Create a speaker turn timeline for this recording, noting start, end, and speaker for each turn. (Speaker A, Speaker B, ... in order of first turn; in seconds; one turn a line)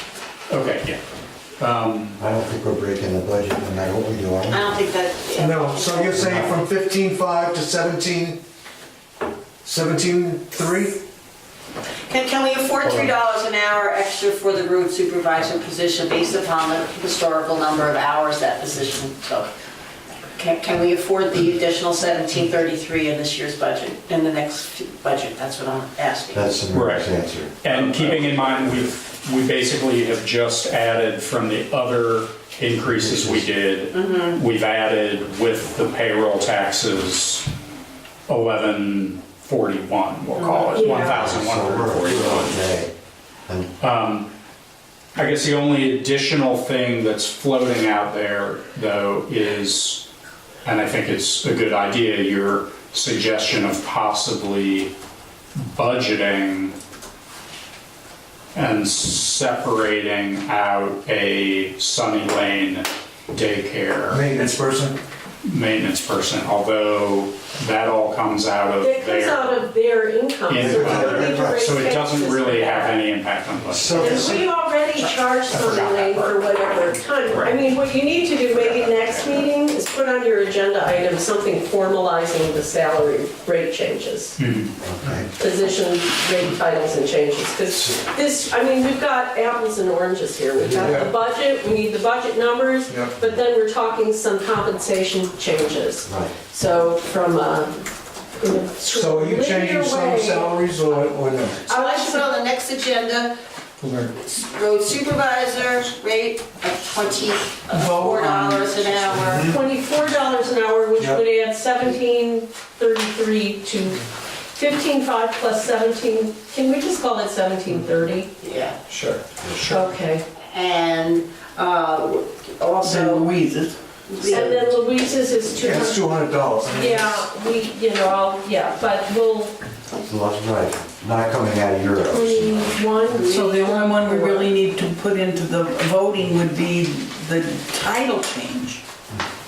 Speaker A: 0.5-1.0
Speaker A: 1.6-2.2
Speaker B: 2.2-4.6
Speaker C: 4.5-6.2
Speaker D: 5.3-8.4
Speaker B: 6.1-6.6
Speaker D: 9.6-11.0
Speaker C: 12.1-19.5
Speaker C: 20.3-26.6
Speaker B: 26.3-27.6
Speaker A: 26.7-37.5
Speaker D: 27.9-28.7
Speaker B: 33.0-33.5
Speaker C: 33.9-34.4
Speaker A: 38.3-42.6
Speaker C: 40.4-40.8
Speaker E: 40.7-41.2
Speaker B: 41.0-42.9
Speaker B: 43.5-43.7
Speaker A: 43.8-44.3
Speaker A: 45.1-50.0
Speaker A: 50.6-54.9
Speaker A: 55.6-56.7
Speaker A: 58.5-64.2
Speaker D: 64.1-65.0
Speaker A: 65.4-69.7
Speaker E: 68.8-73.0
Speaker A: 70.5-74.4
Speaker B: 70.6-71.8
Speaker B: 73.7-74.4
Speaker E: 74.0-84.4
Speaker A: 75.5-76.3
Speaker A: 77.3-77.6
Speaker A: 84.4-84.7
Speaker B: 84.8-85.3
Speaker E: 85.4-97.9
Speaker B: 90.6-91.1
Speaker D: 90.8-91.1
Speaker D: 92.9-93.2
Speaker B: 96.0-96.3
Speaker E: 98.4-100.5
Speaker D: 98.8-101.7
Speaker C: 101.7-103.3
Speaker E: 101.7-102.4
Speaker D: 103.8-104.1
Speaker C: 104.1-109.5
Speaker F: 107.7-109.4
Speaker E: 109.4-118.3
Speaker C: 118.4-118.8
Speaker A: 118.9-119.8
Speaker E: 119.6-120.3
Speaker C: 120.5-123.3
Speaker F: 122.8-123.8
Speaker C: 124.1-124.7
Speaker E: 124.2-129.6
Speaker D: 125.5-127.3
Speaker B: 130.0-132.8
Speaker E: 132.0-134.5
Speaker F: 133.2-138.8